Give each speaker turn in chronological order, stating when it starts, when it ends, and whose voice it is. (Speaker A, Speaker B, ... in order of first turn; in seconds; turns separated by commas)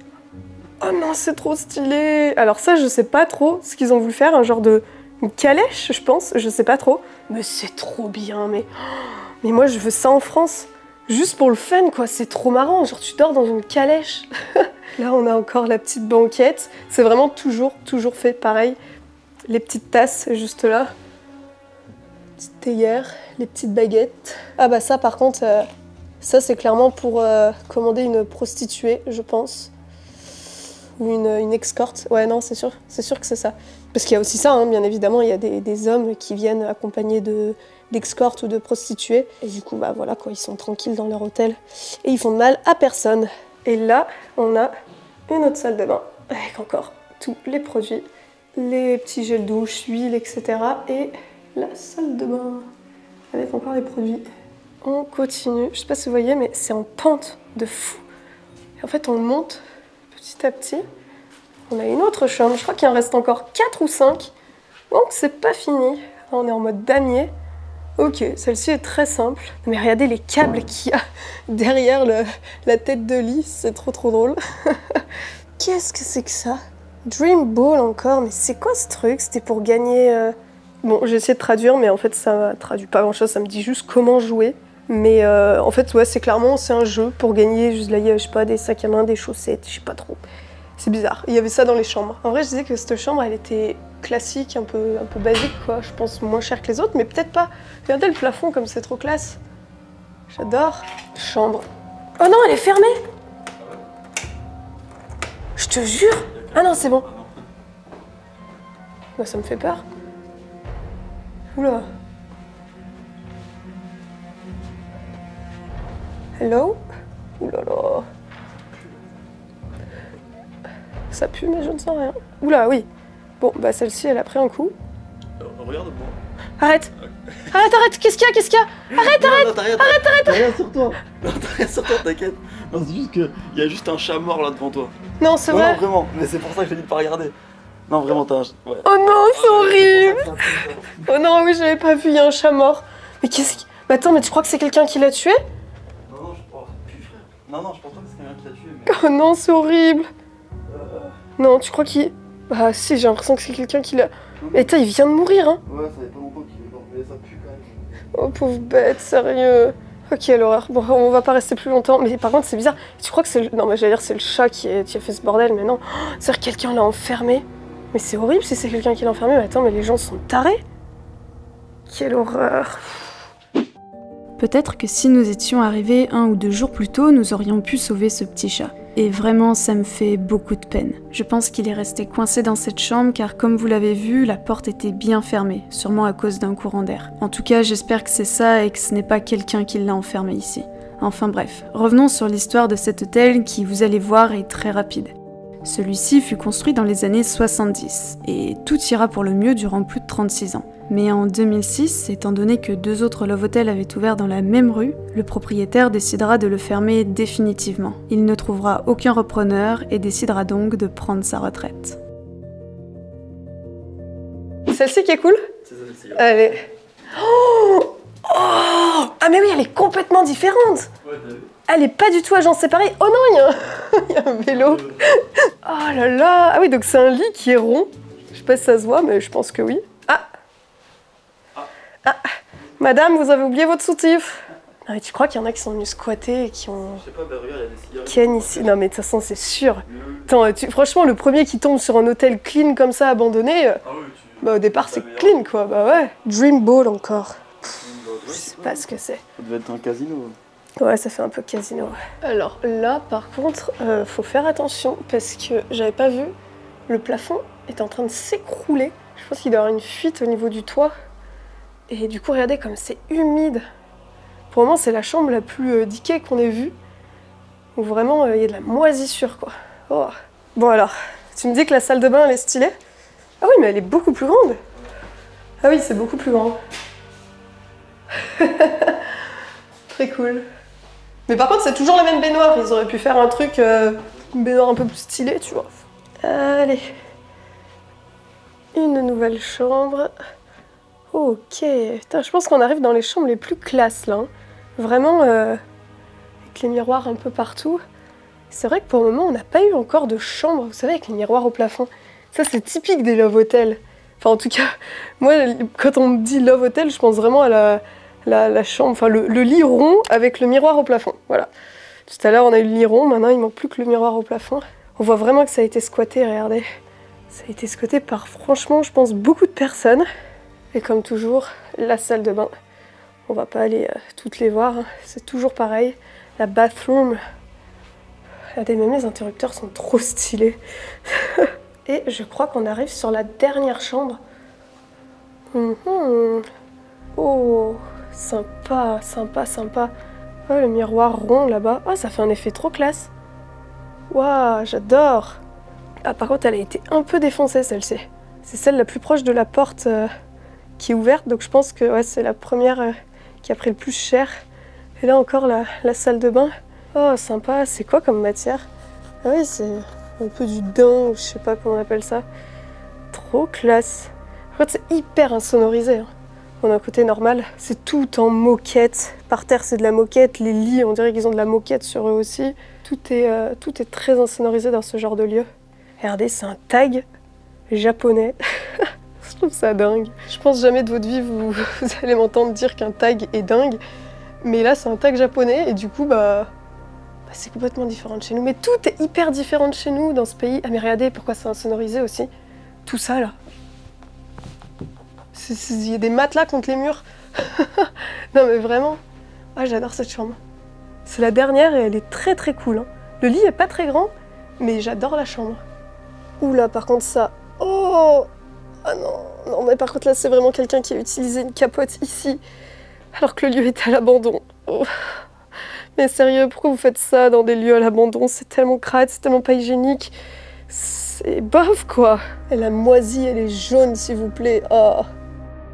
Speaker A: 0.8-18.8, Speaker A: 19.5-20.9, Speaker A: 22.4-25.7, Speaker A: 26.2-29.7, Speaker A: 31.0-44.7, Speaker A: 45.3-48.0, Speaker A: 48.6-52.7, Speaker A: 53.3-54.2, Speaker A: 54.8-58.0, Speaker A: 58.8-60.9, Speaker A: 61.7-64.3, Speaker A: 64.9-67.3, Speaker A: 68.0-75.0, Speaker A: 75.6-90.2, Speaker A: 90.8-99.4, Speaker A: 100.3-101.7, Speaker A: 102.2-102.9, Speaker A: 105.6-107.1, Speaker B: 106.3-107.3, Speaker A: 109.2-109.8, Speaker A: 111.6-111.8, Speaker A: 116.4-116.8, Speaker A: 117.4-118.1, Speaker A: 121.1-122.9, Speaker A: 123.4-124.7, Speaker B: 125.4-126.2, Speaker A: 126.6-126.9, Speaker A: 127.5-130.5, Speaker B: 128.9-134.9, Speaker A: 135.2-135.8, Speaker B: 135.5-137.4, Speaker B: 137.9-141.0, Speaker A: 138.8-145.4, Speaker B: 146.1-149.0, Speaker A: 148.9-150.1, Speaker B: 150.7-151.2, Speaker A: 151.4-155.6, Speaker B: 154.4-154.7, Speaker B: 155.7-157.8, Speaker A: 158.1-170.6, Speaker A: 171.9-173.1, Speaker C: 174.4-195.1, Speaker C: 195.6-212.0, Speaker A: 214.7-215.5, Speaker B: 215.7-216.2, Speaker A: 216.1-220.9, Speaker B: 221.1-221.5, Speaker A: 221.7-230.3, Speaker B: 224.5-225.0, Speaker A: 232.8-237.0, Speaker B: 237.0-238.8, Speaker A: 238.1-243.8, Speaker B: 239.9-240.3, Speaker B: 243.8-245.4, Speaker A: 244.4-247.5, Speaker B: 247.8-248.8, Speaker A: 248.3-249.2, Speaker B: 249.4-250.4, Speaker A: 250.8-256.3, Speaker A: 256.9-260.9, Speaker A: 261.9-263.6, Speaker A: 264.5-266.8, Speaker A: 267.8-272.7, Speaker A: 273.4-274.6, Speaker A: 275.6-276.6, Speaker A: 278.2-279.1, Speaker A: 279.9-280.5, Speaker A: 281.3-285.7, Speaker A: 286.2-286.8, Speaker A: 288.8-290.1, Speaker A: 291.1-295.6, Speaker A: 296.5-297.8, Speaker A: 298.5-311.5, Speaker A: 312.1-316.6, Speaker A: 317.3-320.1, Speaker A: 320.7-322.5, Speaker A: 323.3-327.2, Speaker A: 328.6-334.2, Speaker A: 335.5-336.5, Speaker A: 337.2-339.9, Speaker A: 340.5-343.1, Speaker A: 344.1-345.4, Speaker A: 346.1-350.1, Speaker A: 350.8-354.4, Speaker A: 355.0-358.7, Speaker A: 359.2-362.2, Speaker A: 363.1-366.1, Speaker A: 366.6-375.5, Speaker A: 376.0-377.1, Speaker A: 377.7-383.8, Speaker A: 384.4-386.5, Speaker A: 387.3-392.3, Speaker A: 392.9-393.3, Speaker A: 395.3-399.0, Speaker A: 399.6-400.4, Speaker A: 401.1-405.6, Speaker A: 406.4-408.3, Speaker A: 408.9-412.4, Speaker A: 413.1-415.2, Speaker A: 416.0-420.1, Speaker A: 420.7-425.1